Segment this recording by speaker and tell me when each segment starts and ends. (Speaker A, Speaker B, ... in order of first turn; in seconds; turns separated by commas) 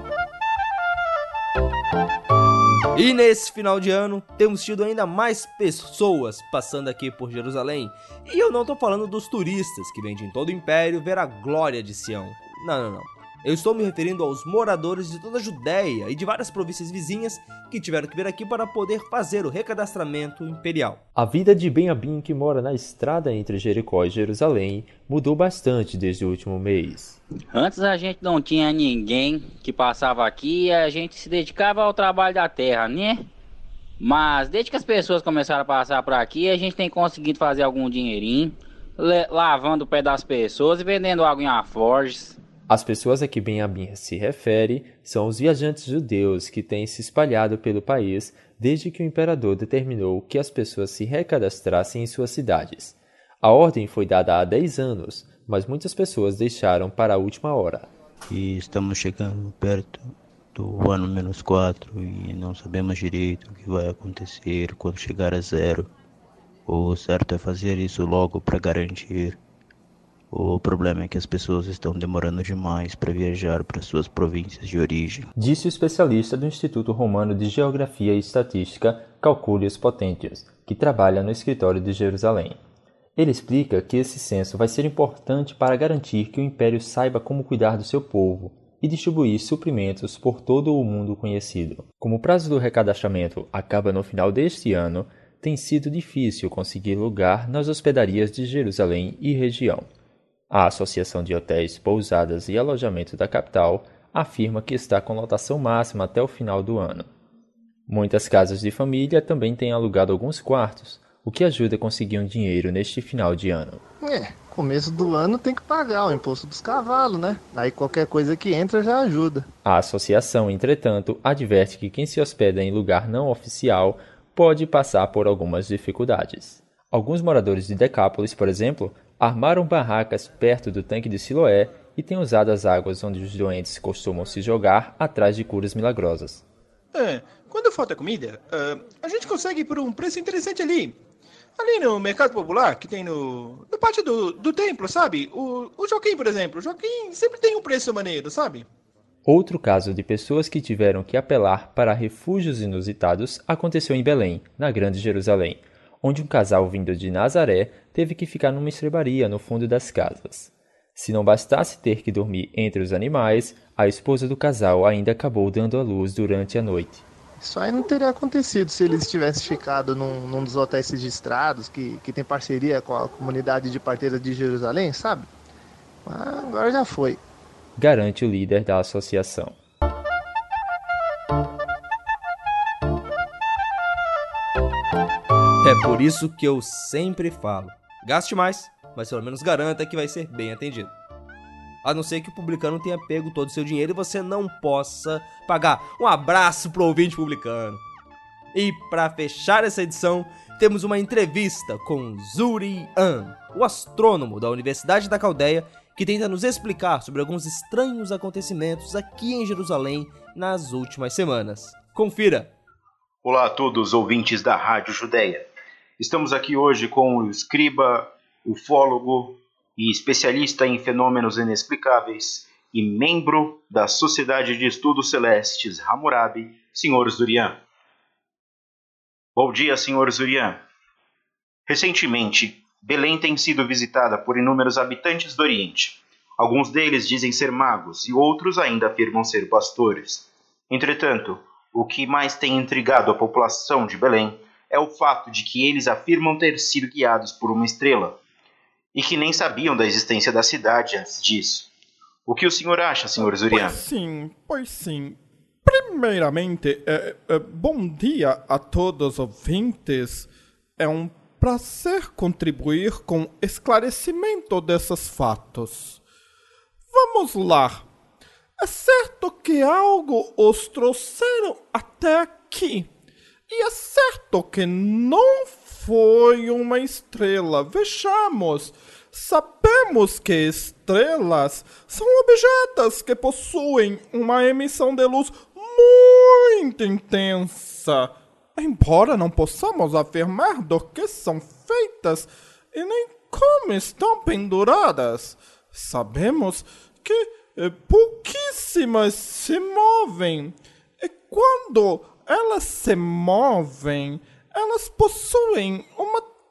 Speaker A: 2.9-21.0, Speaker B: 21.1-27.2, Speaker C: 27.5-33.2, Speaker C: 34.0-42.4, Speaker B: 42.7-57.9, Speaker D: 58.3-65.9, Speaker D: 66.7-69.4, Speaker D: 70.3-75.3, Speaker B: 75.4-82.6, Speaker B: 83.2-99.9, Speaker B: 100.5-107.1, Speaker B: 107.9-113.8, Speaker E: 114.0-119.5, Speaker B: 119.7-136.4, Speaker F: 136.9-141.0, Speaker F: 141.6-148.7, Speaker B: 149.2-167.0, Speaker E: 167.4-175.3, Speaker E: 176.1-177.2, Speaker B: 177.8-179.6, Speaker A: 185.6-190.9, Speaker A: 191.8-197.8, Speaker A: 198.5-212.5, Speaker G: 213.2-215.5, Speaker G: 216.0-227.6, Speaker G: 229.4-230.6, Speaker G: 231.7-248.2, Speaker G: 248.9-251.7, Speaker G: 252.3-253.8, Speaker H: 253.5-266.0, Speaker H: 266.9-267.9, Speaker H: 268.6-272.9, Speaker H: 273.5-306.3